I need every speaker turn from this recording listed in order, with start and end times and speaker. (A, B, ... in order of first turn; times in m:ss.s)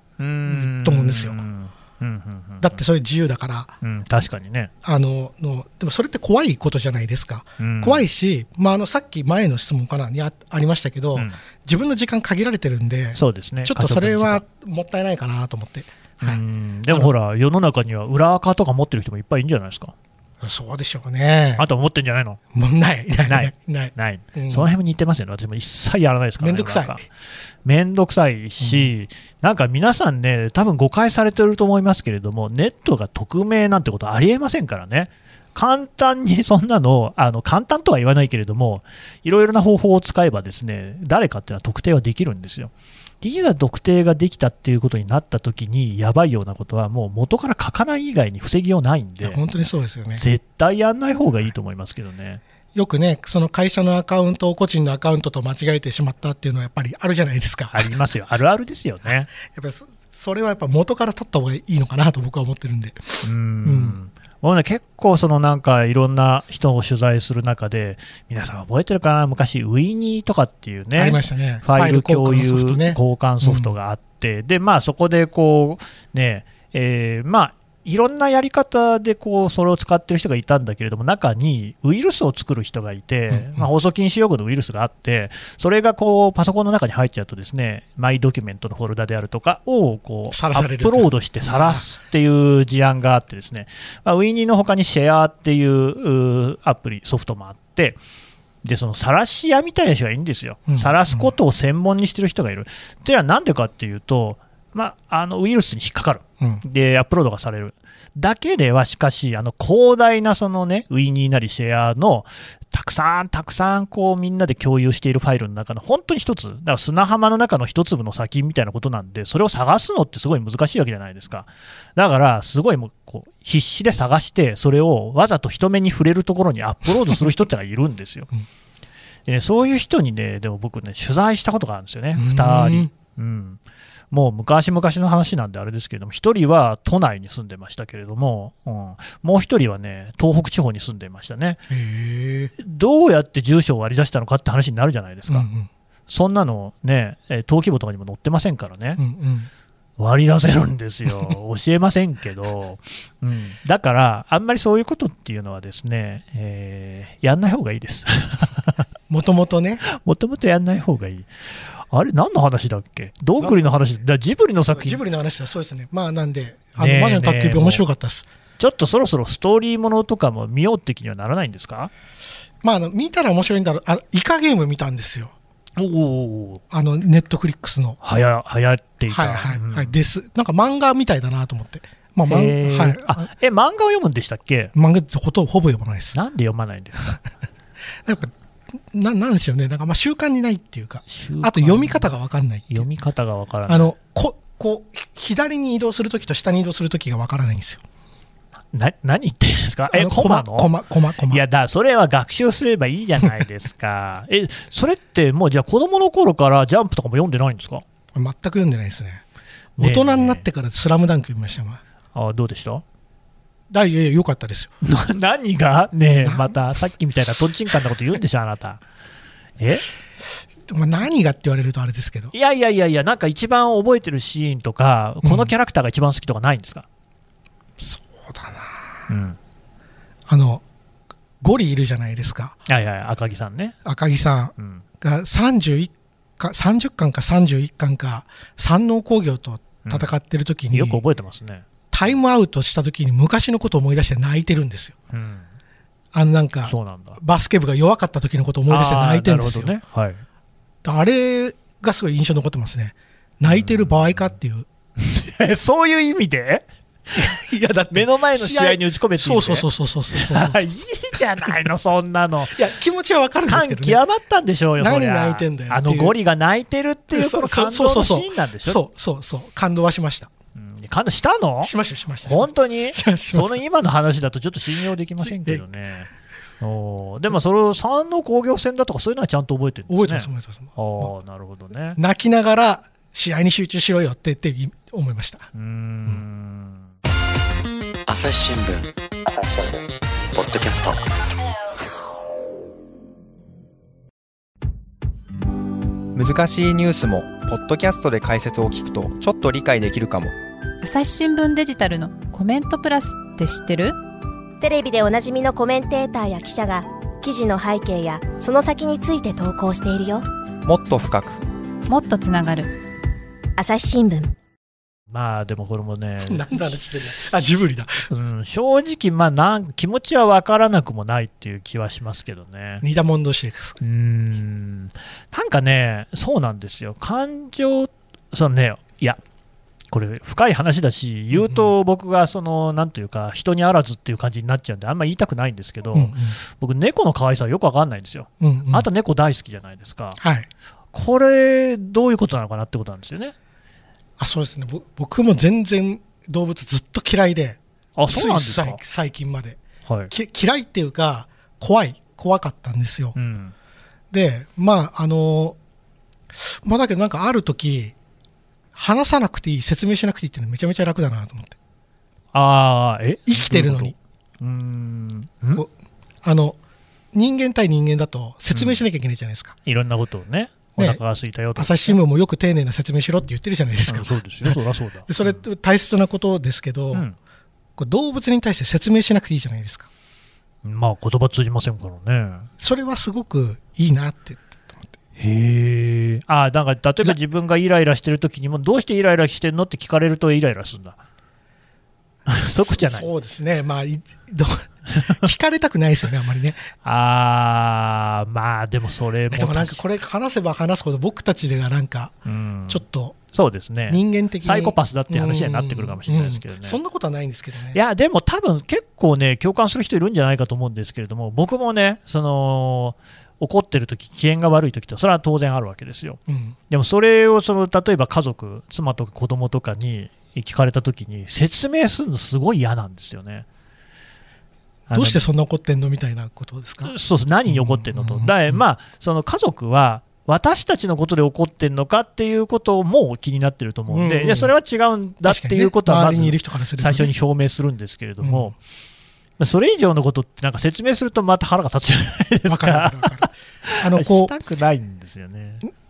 0:00.2-0:02.8 A
0:00.4-0:01.4 B
0:02.6-0:03.8 B
0:03.8-0:04.7 A
0:04.8-0:17.1 B
0:07.6-0:08.1 A
0:11.2-0:11.4 A
0:13.2-0:14.4 A
0:16.2-0:19.9 A
0:20.4-0:21.7 B
0:21.6-0:22.4 A
0:22.5-0:24.7 B
0:23.3-0:27.0 A
0:26.4-0:27.0 B
0:27.6-0:49.4 A
0:28.6-0:28.9 B
0:49.2-0:50.2 B
0:50.2-0:52.4 A
0:52.8-0:58.0 B
0:57.7-0:59.3 A
0:59.0-1:04.0 B
1:03.2-1:38.0 A
1:11.0-1:13.7 B
1:23.3-1:23.7 B
1:30.3-1:31.8 B
1:38.6-2:08.3 A
1:40.7-1:41.3 B
2:09.3-2:13.6 A
2:12.2-2:12.9 B
2:14.1-2:21.6 A
2:21.7-2:22.5 B
2:22.6-2:25.5 A
2:25.3-2:25.7 B
2:26.1-2:29.0 A
2:29.0-2:29.5 B
2:30.0-2:38.8 A
2:39.1-2:39.8 B
2:39.9-2:41.3 A
2:41.9-2:45.0 A
2:43.4-2:44.0 B
2:44.7-2:48.2 B
2:46.8-2:47.8 A
2:48.6-2:51.9 A
2:52.6-2:55.3 B
2:55.8-2:56.6 A
2:56.7-2:58.0 B
2:58.0-2:59.9 A
2:59.1-3:03.3 B
3:02.3-3:04.7 A
3:04.7-3:06.2 B
3:06.1-3:07.2 A
3:08.0-3:08.3 B
3:08.9-3:12.9 B
3:11.1-3:12.1 A
3:12.7-3:13.9 A
3:13.7-3:17.8 B
3:18.7-3:20.7 A
3:19.9-3:21.4 B
3:21.3-3:27.8 A
3:28.1-3:29.2 B
3:29.8-3:30.5 A
3:29.8-3:31.8 B
3:32.1-3:32.8 A
3:33.7-3:34.7 B
3:34.8-3:38.8 A
3:36.2-3:36.6 B
3:39.6-3:39.9 A
3:40.6-3:42.3 B
3:42.3-3:46.9 A
3:45.2-3:45.5 B
3:47.8-3:49.0 B
3:49.1-3:49.4 A
3:50.3-3:50.6 B
3:51.4-3:52.6 B
3:52.7-3:53.8 A
3:53.8-4:01.0 B
3:54.6-3:54.8 A
3:59.8-4:00.1 A
4:00.7-4:02.2 A
4:01.9-4:05.0 B
4:05.1-4:05.5 A
4:06.1-4:09.8 B
4:06.7-4:07.2 A
4:08.7-4:10.2 A
4:10.8-4:14.7 B
4:13.4-4:14.3 A
4:15.0-4:16.7 A
4:17.1-4:20.7 B
4:17.9-4:22.6 A
4:22.5-4:24.0 B
4:23.5-4:28.8 A
4:24.8-4:26.2 B
4:27.1-4:30.3 B
4:30.6-4:31.7 A
4:31.6-4:33.6 B
4:32.2-4:42.0 A
4:35.2-4:35.6 B
4:39.9-4:41.1 B
4:42.0-4:45.5 B
4:45.6-4:46.9 A
4:48.1-4:51.1 C
4:56.1-5:00.4 D
5:00.8-5:04.0 E
5:04.6-5:10.2 F
5:10.6-5:11.4 D
5:11.9-5:12.8 E
5:13.6-5:14.3 F
5:15.1-5:16.8 A
5:16.3-5:18.1 B
5:18.1-5:22.8 A
5:22.8-5:23.8 B
5:23.8-5:29.2 A
5:29.9-5:40.2 A
5:31.3-5:31.7 B
5:35.9-5:36.4 B
5:38.4-5:38.9 B
5:40.2-5:40.5 B
5:40.9-5:43.3 A
5:44.2-5:53.2 B
5:48.0-5:48.8 A
5:49.9-5:50.1 A
5:53.2-5:53.5 A
5:54.1-5:55.6 B
5:56.3-5:58.0 B
5:58.8-6:01.6 B
6:02.3-6:05.6 A
6:03.3-6:04.0 B
6:06.2-6:06.6 B
6:07.1-6:09.6 B
6:08.5-6:08.8 A
6:09.6-6:12.0 A
6:11.6-6:17.1 B
6:13.9-6:15.4 A
6:17.8-6:19.9 B
6:20.6-6:22.5 A
6:22.6-6:24.9 B
6:25.2-6:31.0 A
6:32.3-6:33.1 A
6:32.6-6:36.7 B
6:36.8-6:39.8 A
6:39.3-6:42.2 B
6:42.3-6:46.8 A
6:42.7-6:43.2 B
6:43.9-6:47.8 B
6:47.7-6:56.2 A
6:56.3-6:56.6 B
6:56.7-7:03.5 A
7:04.9-7:07.0 B
7:04.9-7:05.3 A
7:06.8-7:18.6 A
7:07.5-7:08.6 B
7:13.9-7:14.5 B
7:15.2-7:17.1 B
7:18.2-7:18.5 B
7:19.4-7:25.7 A
7:22.5-7:24.3 B